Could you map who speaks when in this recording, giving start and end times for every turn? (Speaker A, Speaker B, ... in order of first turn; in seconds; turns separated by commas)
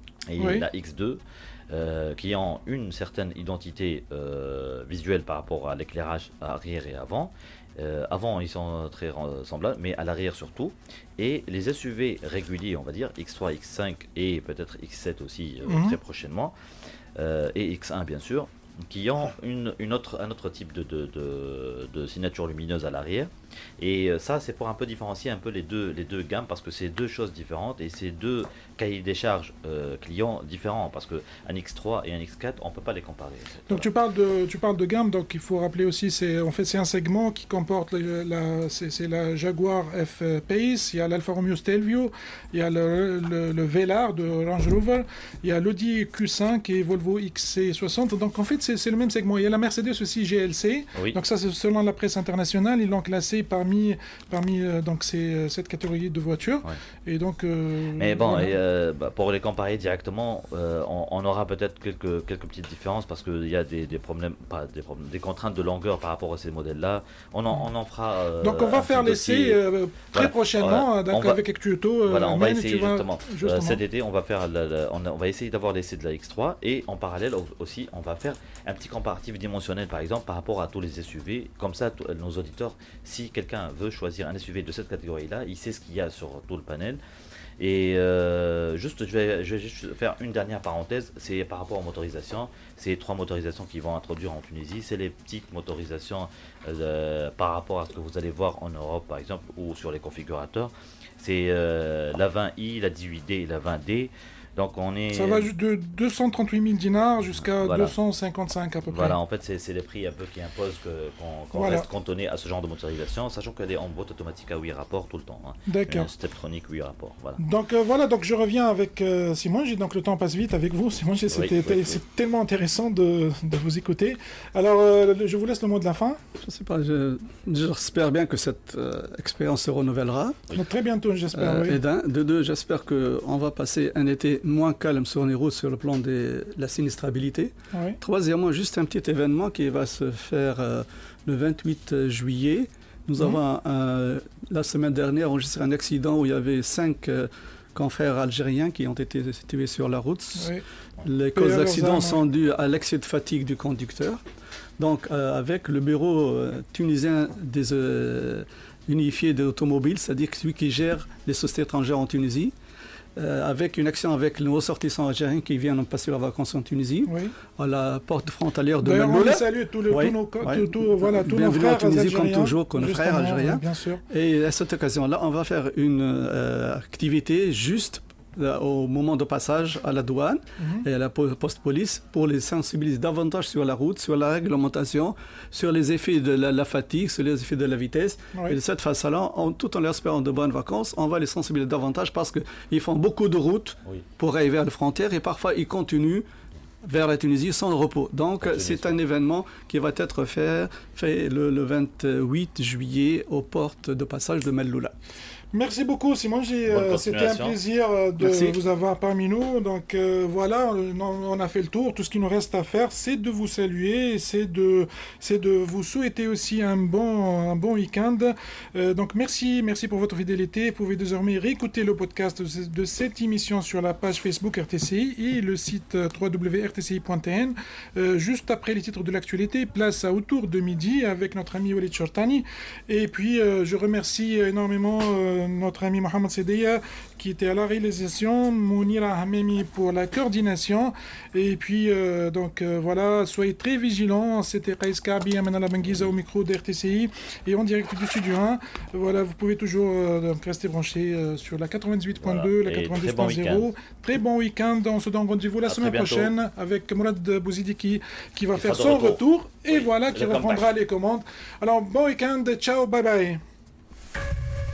Speaker A: 0.3-16.5, Speaker B: 0.4-0.7, Speaker B: 15.7-16.0, Speaker A: 17.2-33.9, Speaker B: 33.7-58.5, Speaker A: 58.0-69.6, Speaker B: 68.4-73.8, Speaker A: 70.1-71.4, Speaker A: 72.0-87.0, Speaker A: 87.6-105.5, Speaker B: 105.1-109.2, Speaker A: 107.3-107.9, Speaker A: 108.9-117.4, Speaker B: 111.5-111.9, Speaker B: 115.7-116.1, Speaker B: 117.4-126.2, Speaker A: 121.3-122.0, Speaker C: 126.4-130.4, Speaker B: 130.5-131.8, Speaker C: 131.3-154.2, Speaker B: 137.7-138.0, Speaker B: 150.3-150.6, Speaker B: 151.3-152.2, Speaker C: 154.8-162.5, Speaker C: 163.2-196.2, Speaker B: 167.1-167.3, Speaker B: 168.8-174.0, Speaker B: 180.6-180.8, Speaker C: 196.8-204.9, Speaker A: 198.4-198.9, Speaker B: 205.5-263.4, Speaker A: 206.7-207.6, Speaker C: 208.2-208.6, Speaker A: 245.8-246.1, Speaker A: 252.2-253.7, Speaker A: 255.7-256.3, Speaker A: 258.5-260.7